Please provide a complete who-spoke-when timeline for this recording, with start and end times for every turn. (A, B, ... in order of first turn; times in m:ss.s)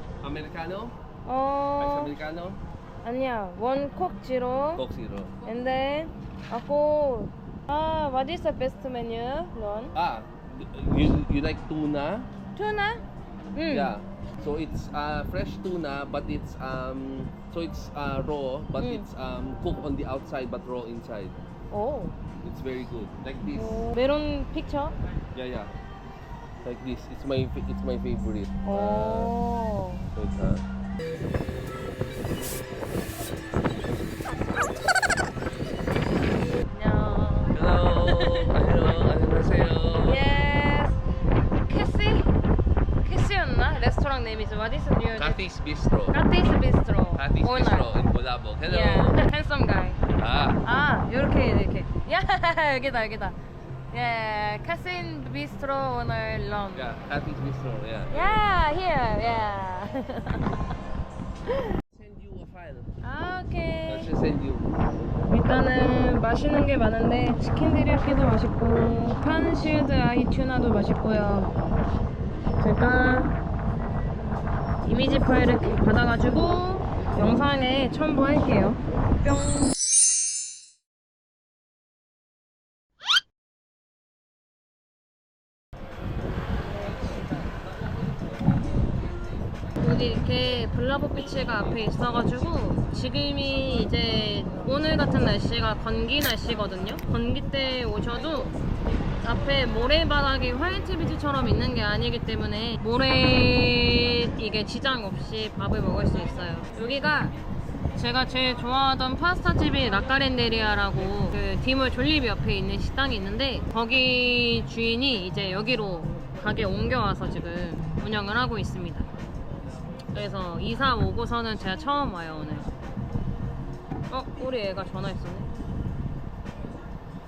0:00.2-0:01.0 A
0:01.2-0:02.1 B
0:01.8-0:02.6 A
0:03.0-0:04.8 B
0:04.8-0:05.3 A
0:05.4-0:09.9 B
0:09.9-0:12.3 A
0:12.5-0:14.0 B
0:13.7-0:21.4 A
0:18.8-0:19.1 B
0:21.7-0:22.2 B
0:22.4-0:23.9 A
0:23.5-0:24.9 B
0:25.3-0:25.7 A
0:26.6-0:29.3 A
0:28.6-0:30.1 B
0:30.1-0:30.6 A
0:36.7-0:38.5 B
0:37.5-0:40.3 A
0:40.0-0:41.0 B
0:41.6-0:42.3 B
0:43.0-0:45.4 B
0:45.2-0:46.2 A
0:46.1-0:47.9 B
0:47.1-0:49.2 A
0:48.7-0:50.0 B
0:50.2-0:50.6 A
0:50.6-0:53.4 B
0:53.9-0:56.9 B
0:56.7-0:58.4 A
0:58.1-1:00.6 B
1:01.9-1:03.0 A
1:03.0-1:04.1 B
1:03.9-1:04.7 A
1:05.3-1:11.5 B
1:12.6-1:13.4 B
1:14.8-1:19.7 B
1:26.7-1:27.5 B
1:29.8-1:38.6 B
1:39.2-1:47.4 B
1:47.9-1:59.1 B
2:00.1-2:02.7 B
2:04.1-2:05.5 B